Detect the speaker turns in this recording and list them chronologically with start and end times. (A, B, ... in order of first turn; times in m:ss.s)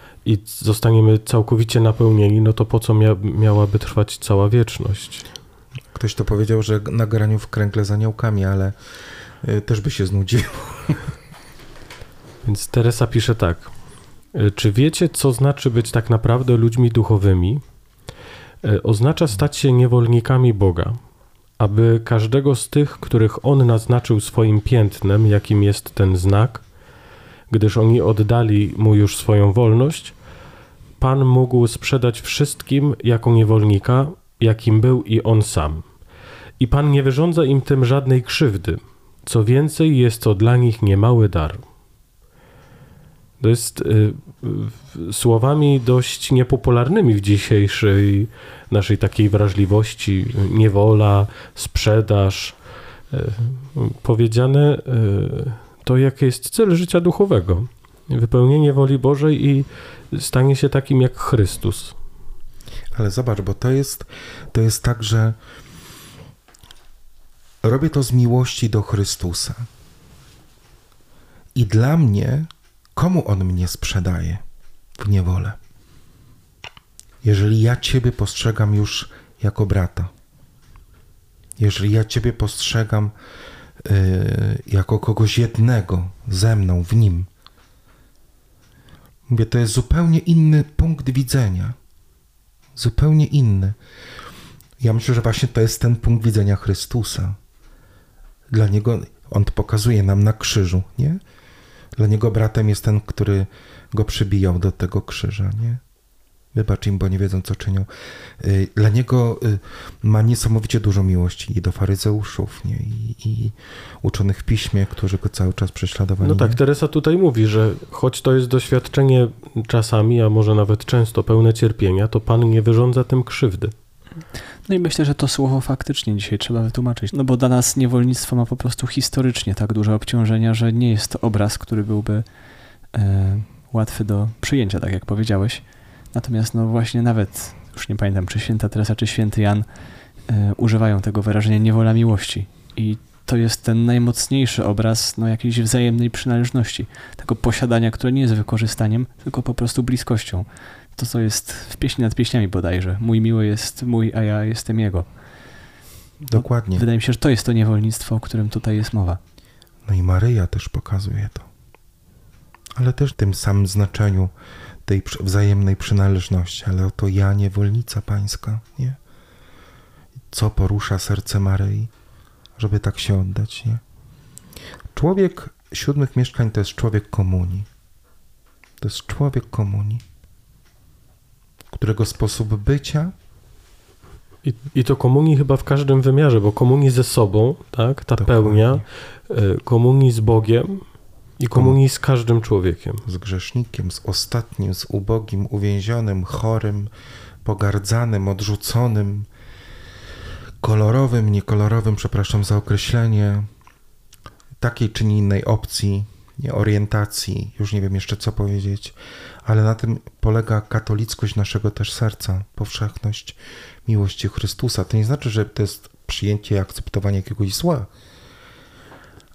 0:00.2-0:05.2 A
0:06.0-0:08.8 B
0:09.4-0:11.2 B
0:12.4-0:13.7 A
0:14.3-0:17.6 A
0:18.6-0:21.0 A
0:21.6-0:26.7 A
0:27.5-0:30.2 A
0:31.0-0:35.9 A
0:36.6-0:41.6 A
0:43.4-0:52.6 A
0:53.1-1:02.0 A
1:02.9-1:05.4 B
1:07.6-1:09.7 B
1:11.6-1:14.4 B
1:15.0-1:15.6 B
1:17.2-1:20.1 B
1:21.6-1:23.1 B
1:23.8-1:27.3 B
1:29.3-1:31.8 B
1:32.8-1:33.8 B
1:34.8-1:37.4 B
1:38.5-1:41.2 B
1:42.0-1:45.8 B
1:46.5-1:47.9 B
1:48.4-1:56.6 B
1:56.2-2:03.7 A
2:04.7-2:12.2 C
2:12.9-2:19.7 C
2:20.3-2:35.1 C
2:36.3-2:36.8 B
2:36.3-2:39.2 C
2:39.9-2:41.5 B
2:42.8-2:44.3 B
2:44.9-2:49.0 B
2:50.3-2:51.9 B
2:52.6-2:53.8 B
2:54.9-2:57.7 B
2:58.8-3:00.0 B
3:01.7-3:03.1 B
3:04.4-3:13.0 A
3:08.2-3:08.8 B
3:11.5-3:11.8 B
3:13.1-3:16.9 B
3:17.4-3:19.3 B
3:20.6-3:23.5 B
3:24.6-3:37.9 B